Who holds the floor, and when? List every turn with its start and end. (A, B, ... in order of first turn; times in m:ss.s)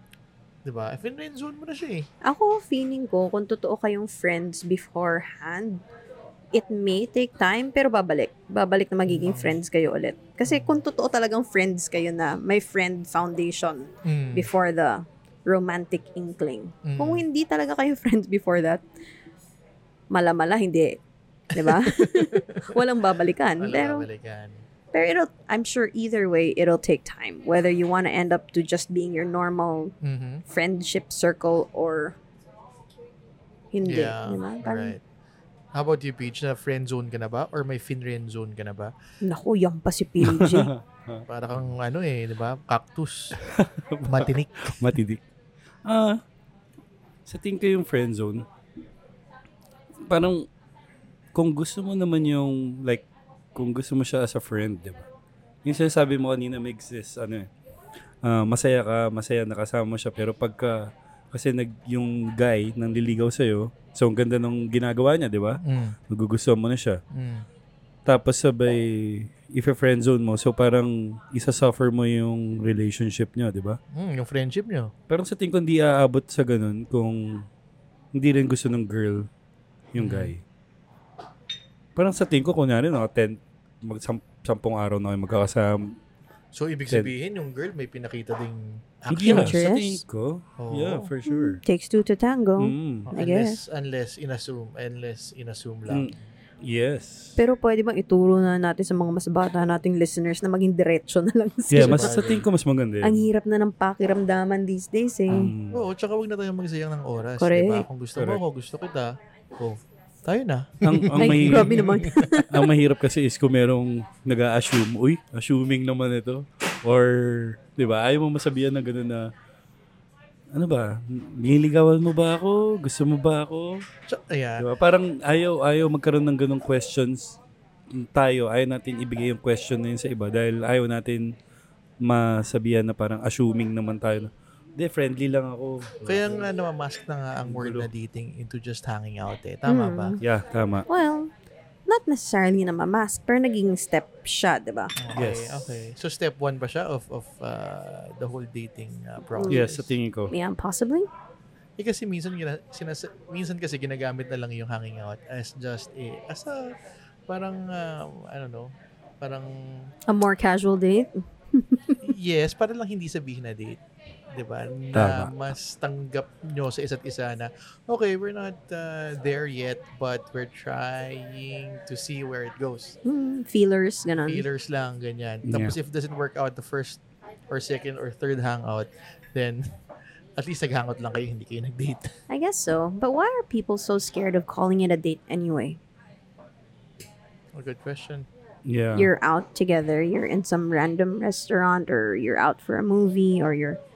0:00.7-0:02.1 A
0:02.2-0:05.8 B
0:06.5-0:18.8 B
0:09.1-0:09.6 A
0:10.4-0:10.8 A
0:14.0-0:14.5 A
0:16.8-0:17.2 A
0:20.1-0:21.0 B
0:21.5-0:24.1 B
0:21.6-0:22.9 A
0:23.6-0:24.7 A
0:24.9-0:29.9 B
0:30.0-0:30.4 A
0:30.5-0:32.2 B
0:33.7-0:35.0 B
0:33.8-0:35.0 A
0:35.7-0:38.9 A
0:39.2-0:40.7 B
0:40.2-0:41.2 C
0:41.3-0:43.4 A
0:43.4-0:45.2 C
0:44.0-0:45.0 A
0:45.8-0:46.2 C
0:47.3-0:48.4 C
0:50.0-0:50.5 C
0:51.3-0:55.1 C
0:55.6-0:57.5 C
0:58.2-1:07.0 C
1:05.6-1:06.0 A
1:07.1-1:07.4 A
1:08.1-1:13.8 C
1:13.9-1:14.9 A
1:15.1-1:17.5 C
1:18.1-1:19.3 C
1:19.9-1:20.4 C
1:20.0-1:20.3 A
1:22.0-1:26.0 C
1:26.5-1:29.6 A
1:29.1-1:31.6 C
1:29.3-1:30.0 B
1:30.6-1:31.1 A
1:31.3-1:33.6 B
1:32.6-1:33.1 C
1:33.1-1:36.3 A
1:36.6-1:37.4 C
1:37.4-1:42.2 B
1:41.7-1:43.2 C
1:41.8-1:42.4 A
1:43.0-1:45.6 B
1:45.4-1:45.8 C
1:45.7-1:52.3 A
1:47.4-1:47.9 B
1:48.2-1:48.4 C
1:50.8-1:51.8 C
1:51.2-1:52.7 B
1:52.5-1:59.3 C
2:00.5-2:03.8 C
2:04.1-2:04.7 A
2:04.6-2:07.4 C
2:07.9-2:11.2 C
2:12.0-2:16.5 C
2:16.0-2:20.2 A
2:17.4-2:17.9 C
2:19.7-2:20.2 B
2:20.2-2:20.9 C
2:20.9-2:21.3 B
2:21.9-2:24.9 B
2:25.0-2:29.9 A
2:25.2-2:25.6 C
2:29.4-2:29.6 B
2:29.5-2:30.3 C
2:30.3-2:31.1 B
2:31.8-2:39.9 A
2:40.1-2:42.0 B
2:42.0-2:43.8 A
2:44.3-2:53.0 A
2:44.9-2:45.3 C
2:53.0-2:54.4 B
2:54.3-2:59.6 A
2:55.4-2:55.8 C
3:00.4-3:02.1 A
3:02.3-3:05.8 B
3:07.6-3:08.3 A
3:08.6-3:09.1 C
3:08.9-3:13.8 B